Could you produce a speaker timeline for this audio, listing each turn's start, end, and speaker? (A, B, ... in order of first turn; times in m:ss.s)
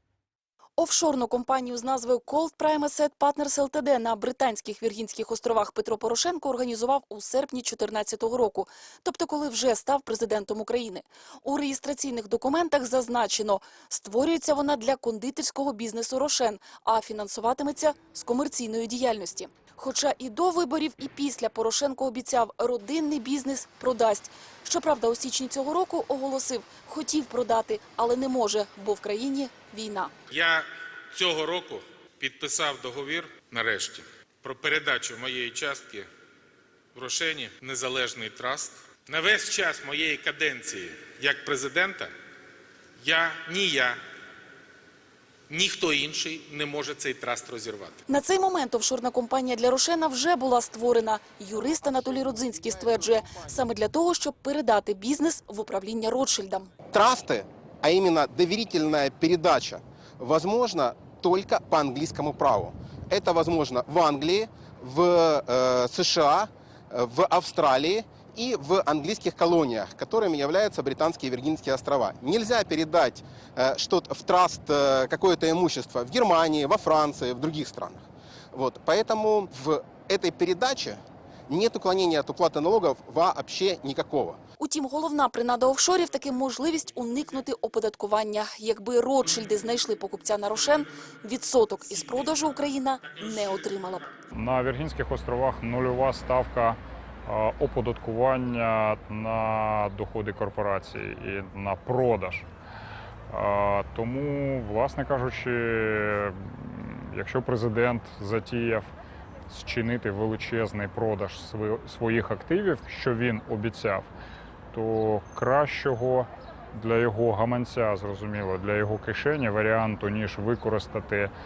0:00.8-0:30.1 A
0:30.3-0:36.1 B
0:36.9-0:42.1 B
0:43.0-0:44.0 B
0:45.5-0:48.0 B
0:48.1-0:56.7 A
0:51.9-0:53.4 C
0:56.9-1:24.4 C
1:24.6-1:34.1 A
1:34.3-1:42.4 D
1:43.3-1:48.9 D
1:49.5-1:54.1 D
1:54.7-2:01.3 D